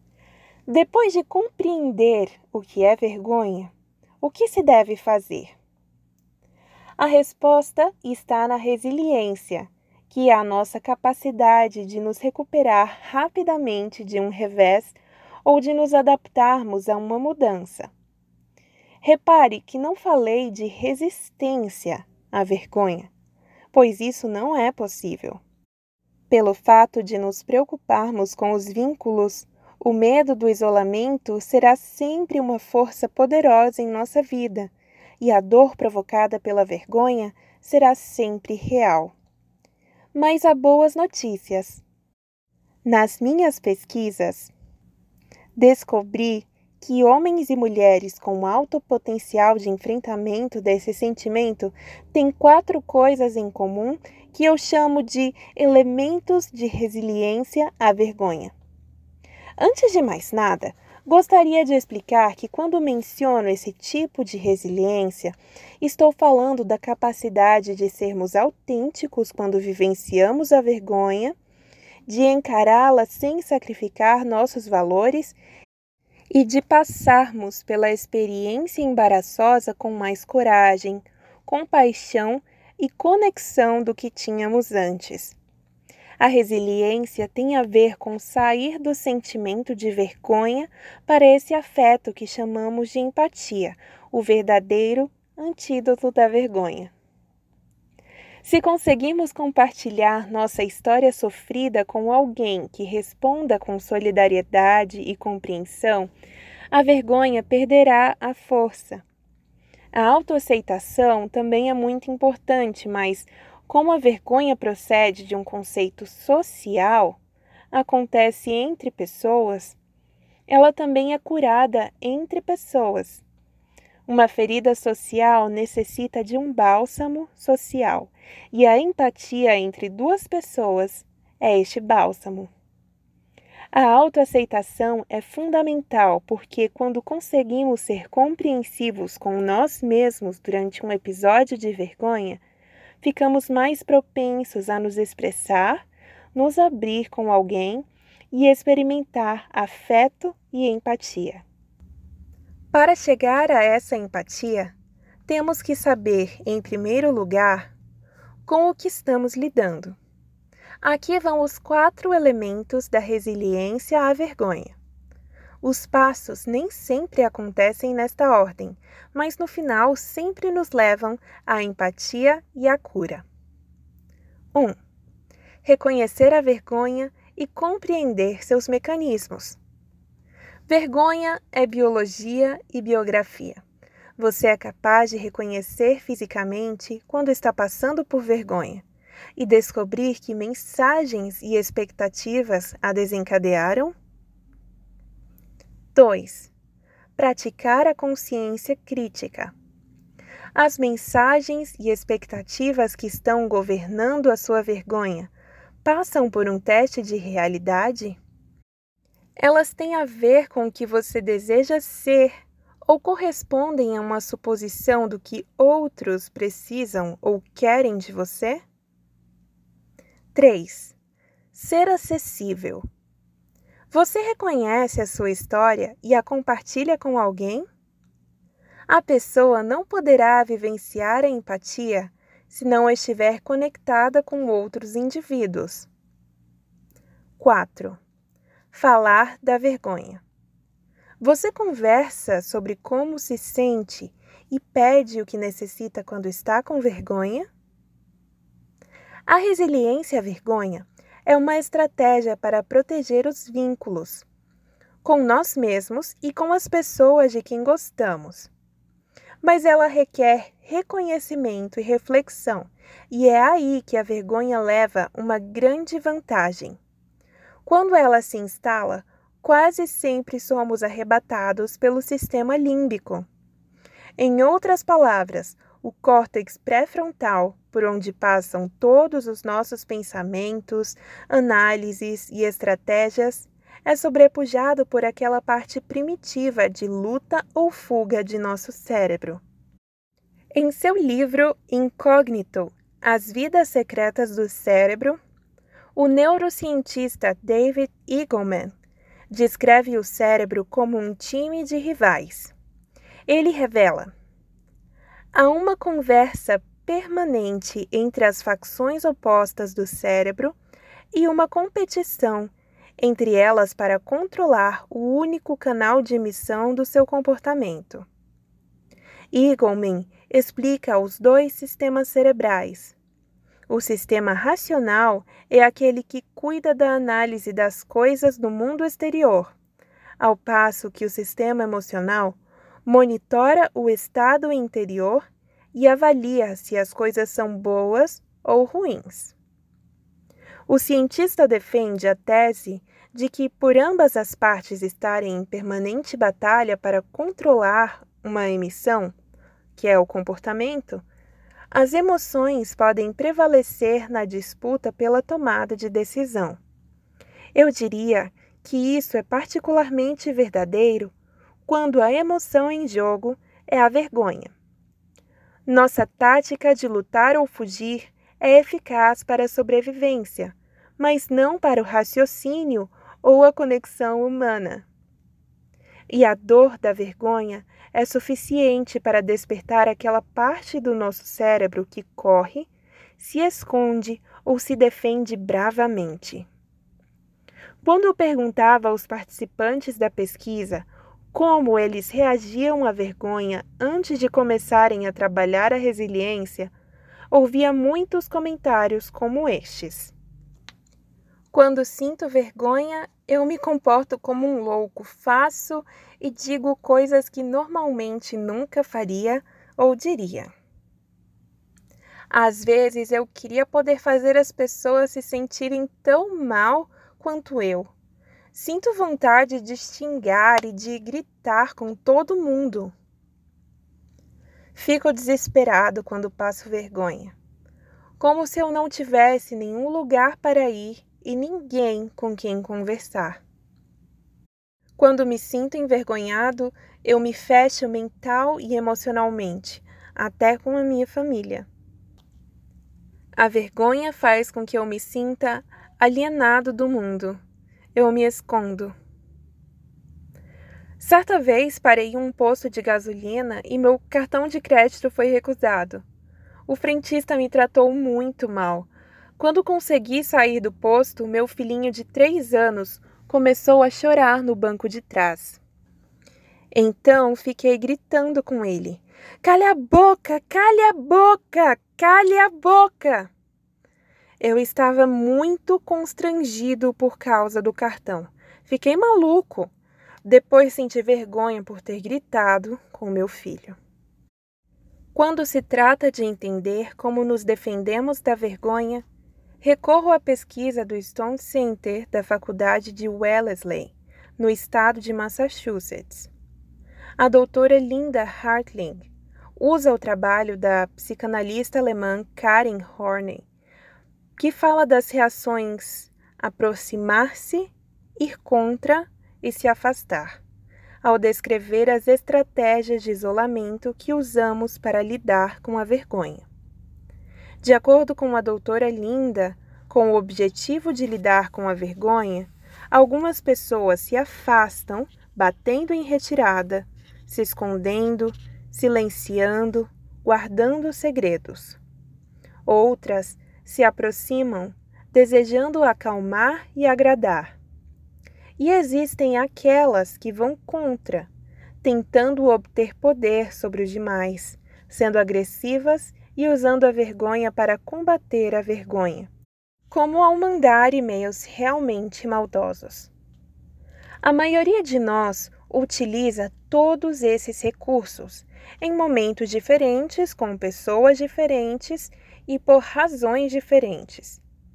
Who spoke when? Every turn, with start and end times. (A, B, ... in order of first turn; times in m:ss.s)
0:00.7-0:05.5 A
0:07.0-0:17.9 A
0:19.0-0:23.1 A
0:23.7-0:25.4 A
0:26.3-0:39.1 A
0:40.1-0:41.8 A
0:42.8-0:44.5 A
0:45.5-0:58.5 A
0:59.6-1:11.3 A
1:12.0-1:15.4 A
1:16.3-1:25.4 A
1:26.2-1:36.9 A
1:38.4-1:46.1 A
1:46.7-1:49.0 A
1:49.9-1:57.2 A
1:57.7-1:59.8 A
2:00.5-2:03.2 A
2:04.0-2:12.5 A
2:13.7-2:22.4 A
2:23.0-2:31.4 A
2:32.7-2:34.7 A
2:35.2-2:37.7 A
2:38.4-2:39.9 A
2:40.8-2:44.7 A
2:45.6-2:53.2 A
2:55.6-2:59.6 A
3:00.7-3:03.6 A
3:04.2-3:08.8 A
3:09.4-3:13.9 A
3:15.9-3:16.5 A
3:17.2-3:19.5 A
3:20.5-3:25.3 A
3:25.8-3:28.2 A
3:29.4-3:32.3 A
3:32.8-3:38.6 A
3:40.3-3:40.9 A
3:41.5-3:42.8 A
3:43.9-3:47.7 A
3:48.9-3:55.9 A
3:57.4-3:58.0 A
3:58.7-4:00.2 A
4:01.2-4:07.5 A
4:09.3-4:14.2 A
4:15.0-4:18.5 A
4:19.4-4:26.8 A
4:27.6-4:33.2 A
4:34.2-4:49.4 A
4:50.5-4:55.2 A
4:55.9-4:58.7 A
4:59.3-5:02.5 A
5:03.3-5:04.1 A
5:05.3-5:10.6 A
5:11.1-5:18.0 A
5:19.3-5:23.0 A
5:23.7-5:29.5 A
5:30.2-5:39.3 A
5:40.7-5:49.1 A
5:49.7-5:51.0 A
5:51.7-5:56.6 A
5:57.5-6:01.1 A
6:01.6-6:04.5 A
6:05.6-6:14.8 A
6:16.1-6:26.5 A
6:27.8-6:36.7 A
6:37.3-6:40.1 A
6:41.5-6:50.5 A
6:52.3-6:57.9 A
6:58.5-7:02.9 A
7:04.7-7:07.3 A
7:08.2-7:13.4 A
7:15.0-7:21.7 A
7:23.4-7:27.4 A
7:27.9-7:28.9 A
7:31.0-7:36.0 A
7:36.7-7:45.6 A
7:46.7-7:53.3 A
7:54.4-7:59.7 A
8:00.2-8:03.8 A
8:05.1-8:09.0 A
8:09.6-8:16.3 A
8:17.2-8:23.4 A
8:24.4-8:30.4 A
8:31.0-8:36.4 A
8:37.6-8:51.8 A
8:52.6-8:57.5 A
8:58.6-9:01.3 A
9:01.8-9:09.3 A
9:09.9-9:13.1 A
9:14.2-9:24.4 A